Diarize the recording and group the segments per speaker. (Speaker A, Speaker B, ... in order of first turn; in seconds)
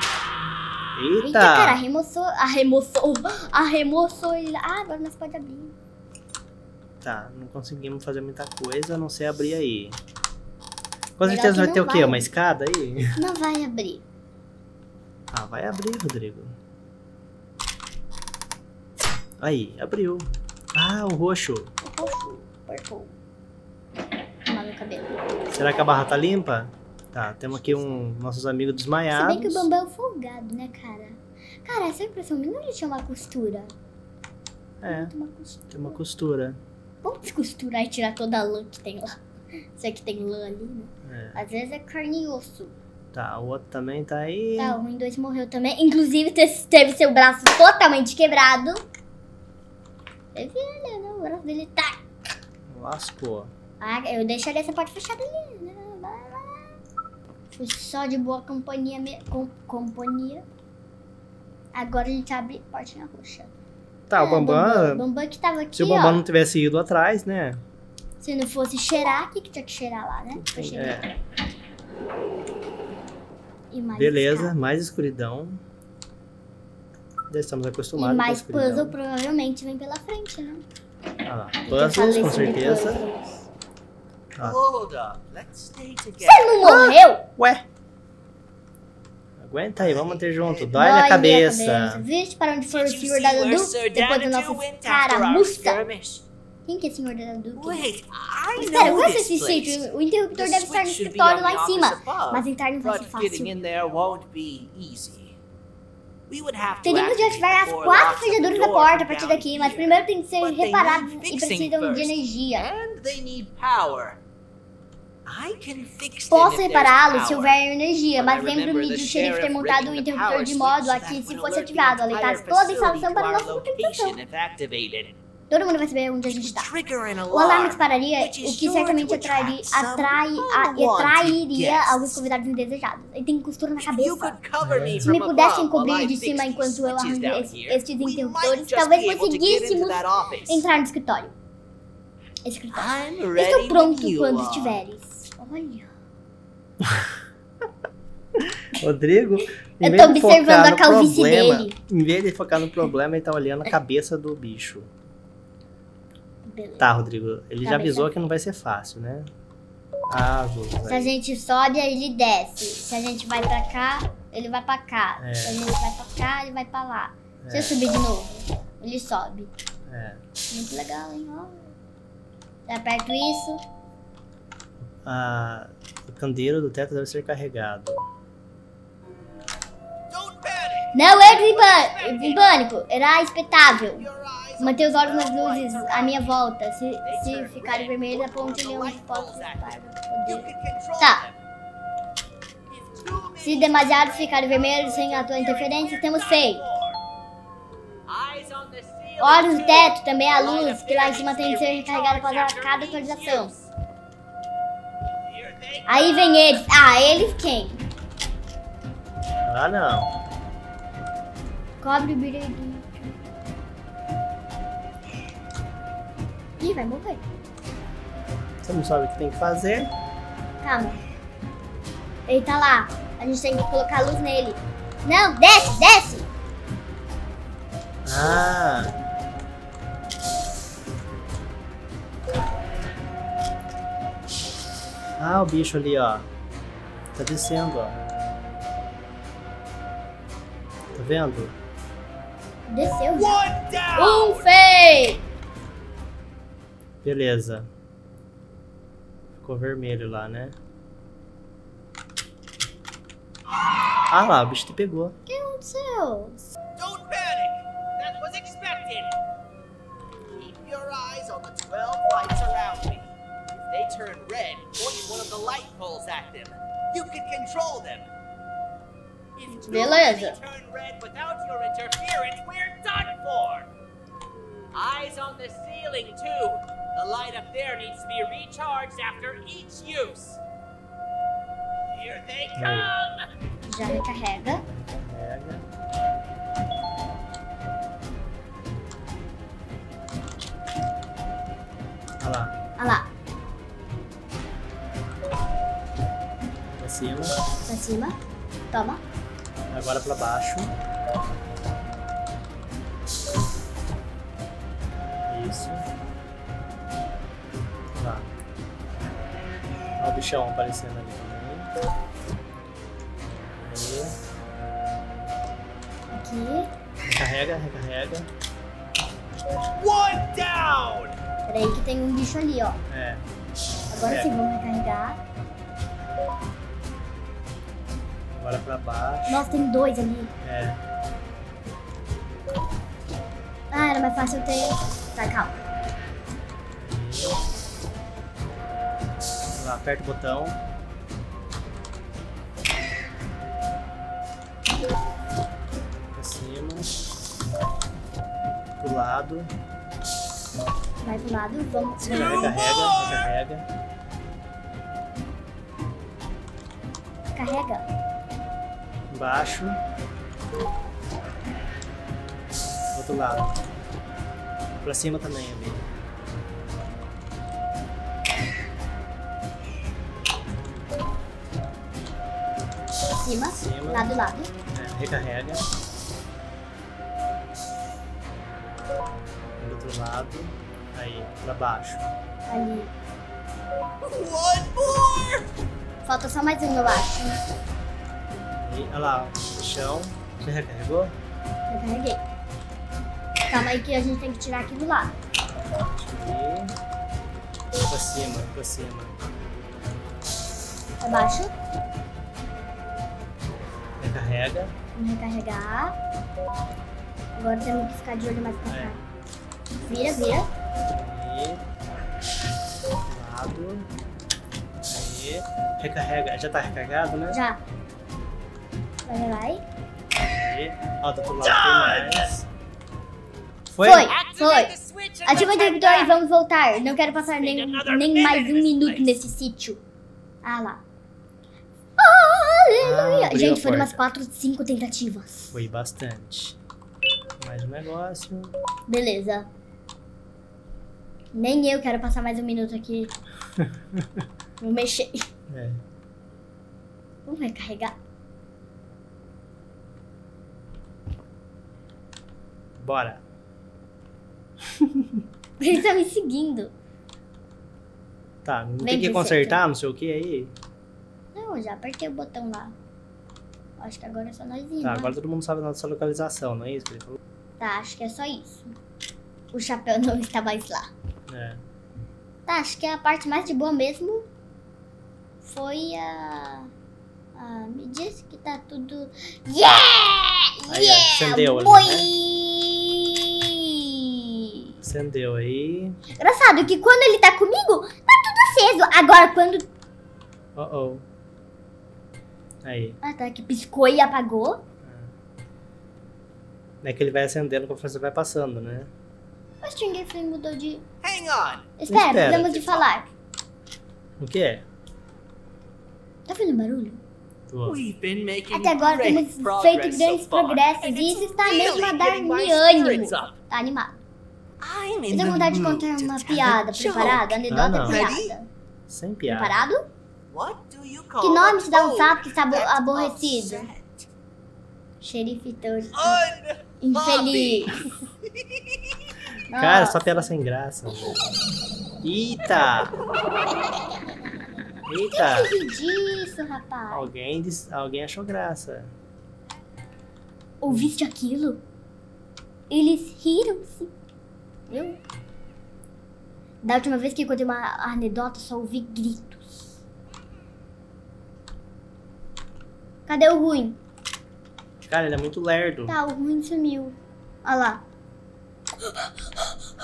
Speaker A: 0.9-1.8, 7.0-10.0, 11.2-13.2, 15.3-16.5, 19.4-21.7, 25.5-29.7, 34.8-35.1, 35.7-36.6, 41.1-41.4, 43.1-44.8, 52.7-53.5, 64.1-65.0, 65.8-67.6, 70.3-71.1, 73.9-75.6, 77.3-79.0, 81.2-83.0, 86.6-87.7, 89.4-92.0, 134.6-135.2, 146.8-147.1, 148.5-154.9, 156.8-159.3, 160.1-161.1, 165.2-165.6, 167.4-167.8, 169.9-170.2, 175.0-178.0, 209.4-210.1, 218.6-219.9, 228.1-228.9, 235.2-236.3, 237.2-238.0, 240.9-241.5, 247.0-247.7, 249.4-250.6, 254.1-255.2, 282.6-282.9, 284.6-285.6, 292.2-292.6, 296.8-297.4, 299.7-300.7, 305.3-305.8, 308.0-308.4, 310.0-311.7, 313.6-314.1, 317.1-318.3, 322.9-323.2, 323.9-324.3, 328.3-329.5, 330.4-330.8, 336.8-337.4, 339.6-340.6, 346.1-346.9, 348.8-349.5, 352.1-353.6, 359.1-359.8, 362.9-363.5, 364.8-365.8, 373.6-375.6, 379.6-382.1, 388.6-391.1, 395.4-396.7, 397.8-399.2, 404.0-404.7, 408.7-409.0, 410.9-411.6, 413.1-413.9, 414.9-417.4, 420.3-422.5, 423.7-424.1, 432.8-434.0, 435.5-436.6, 437.4-438.5, 443.6-444.2, 445.5-445.8, 452.8-453.2, 454.8-455.2, 458.4-460.5, 464.8-467.2, 471.3-471.6, 480.7-482.1, 484.8-486.0, 490.6-491.0, 492.6-493.0, 494.8-495.1, 496.8-498.9, 501.9-502.9, 504.2-504.6, 507.5-507.8, 517.5-518.0, 518.9-519.6, 529.5-531.2, 532.0-533.0, 534.9-535.5, 536.9-538.9, 554.9-556.0
Speaker B: 1.2-5.7, 11.3-12.3, 13.2-14.0, 21.8-23.1, 24.5-25.2, 27.5-28.0, 29.1-33.7, 34.9-36.0, 37.0-39.2, 39.8-42.7, 44.6-48.8, 50.4-52.0, 53.8-56.8, 57.5-60.4, 61.7-63.5, 64.2-66.2, 68.2-71.0, 73.7-74.5, 78.0-80.6, 81.7-83.5, 86.2-87.3, 90.7-95.8, 96.7-97.9, 98.6-103.5, 106.8-112.7, 116.3-124.2, 125.5-126.7, 127.3-134.4, 135.1-141.3, 142.4-145.9, 149.8-151.8, 156.4-156.9, 157.6-158.2, 160.9-169.5, 170.5-171.7, 172.7-173.6, 180.9-184.1, 184.6-191.3, 193.4-196.6, 199.2-203.5, 205.9-207.9, 211.8-213.2, 216.6-217.2, 220.6-221.0, 222.3-226.3, 242.7-243.4, 243.9-245.2, 255.3-256.5, 269.7-270.4, 283.7-284.6, 292.8-293.1, 297.7-298.1, 298.7-299.0, 316.1-316.7, 321.5-322.8, 323.9-325.2, 329.3-330.3, 333.7-335.6, 351.0-352.7, 357.4-357.9, 373.2-374.5, 382.5-382.9, 386.1-387.4, 391.7-392.2, 393.5-395.1, 401.0-401.5, 405.0-405.9, 407.4-409.0, 409.9-410.5, 417.3-417.6, 419.1-419.6, 423.8-424.7, 425.2-429.8, 430.4-430.8, 432.0-435.6, 438.9-439.5, 441.3-443.1, 444.6-445.3, 447.3-447.9, 455.6-456.7, 458.8-459.6, 461.4-462.7, 463.8-465.1, 467.6-468.7, 469.5-470.9, 472.5-474.3, 475.4-476.7, 477.4-484.6, 486.2-489.7, 493.0-494.6, 499.6-500.8, 501.8-503.1, 506.3-507.0, 508.5-514.0, 515.1-518.5, 519.3-519.9, 521.2-523.7, 525.0-526.2, 526.8-527.9, 529.5-530.3, 535.1-537.1, 540.6-541.6, 542.7-543.9, 544.7-545.0, 546.6-549.8, 553.1-553.8, 555.9-557.8, 558.8-559.5
Speaker C: 84.4-86.6, 89.8-90.8, 92.7-96.2, 97.6-105.4, 106.3-114.2, 115.3-117.6, 118.2-125.2, 126.3-132.2, 133.8-140.6, 142.7-144.8, 180.1-182.6, 183.6-186.4, 187.0-191.4, 192.7-197.0, 198.1-203.7, 205.2-206.5, 243.1-244.5, 256.8-259.2, 260.3-268.1, 269.4-273.7, 274.7-280.4, 281.9-283.3, 319.8-321.2, 352.1-353.2, 384.0-385.5, 421.4-422.3, 424.1-426.2, 426.8-429.2, 501.0-501.7, 507.7-513.3, 514.6-518.4, 520.3-524.1, 525.9-529.0